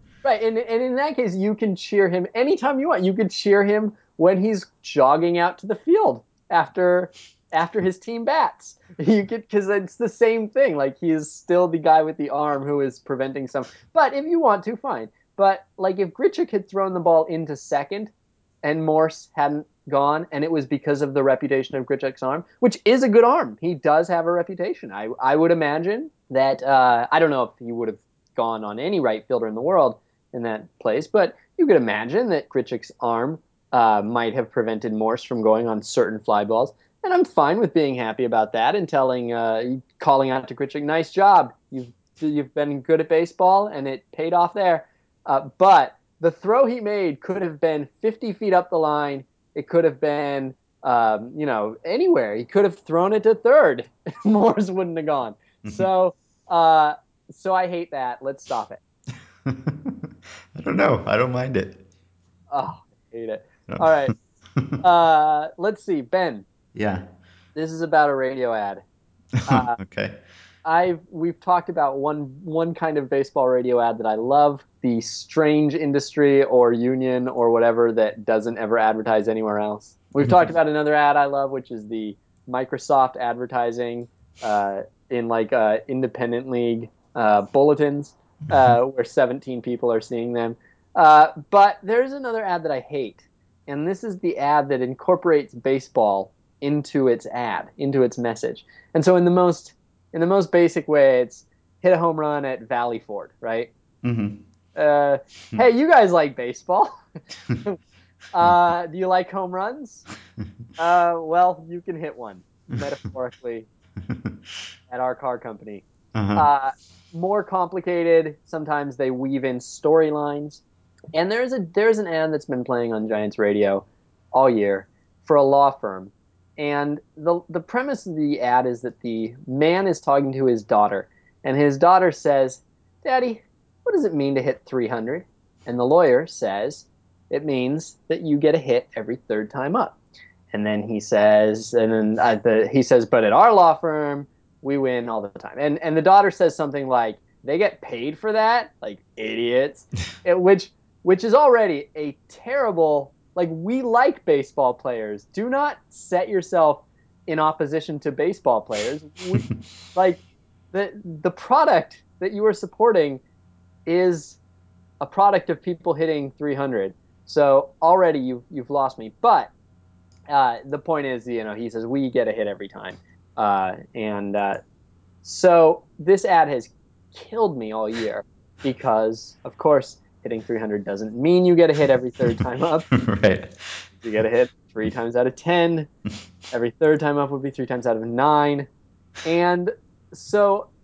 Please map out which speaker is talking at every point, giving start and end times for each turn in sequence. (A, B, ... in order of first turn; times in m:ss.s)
0:00.2-0:18.1 A
0:18.6-0:58.8 A
0:59.4-1:01.8 B
1:02.5-1:04.1 A
1:03.7-1:04.8 B
1:04.8-1:06.4 A
1:06.8-1:07.0 B
1:07.6-1:08.8 A
1:09.4-1:10.2 B
1:09.5-1:09.8 A
1:10.6-1:43.7 A
1:44.0-1:44.4 B
1:44.8-1:46.9 A
1:48.3-1:50.1 A
1:50.8-1:53.7 A
1:54.1-1:54.3 B
1:54.9-2:00.6 A
1:56.2-1:56.5 B
2:01.2-2:20.0 A
2:20.5-2:40.2 A
2:40.7-2:43.2 A
2:43.9-2:44.4 A
2:45.0-2:49.5 A
2:50.3-2:54.6 A
2:55.2-3:02.9 A
3:02.9-3:03.9 B
3:04.0-3:05.9 A
3:06.5-3:08.7 A
3:09.2-3:10.7 A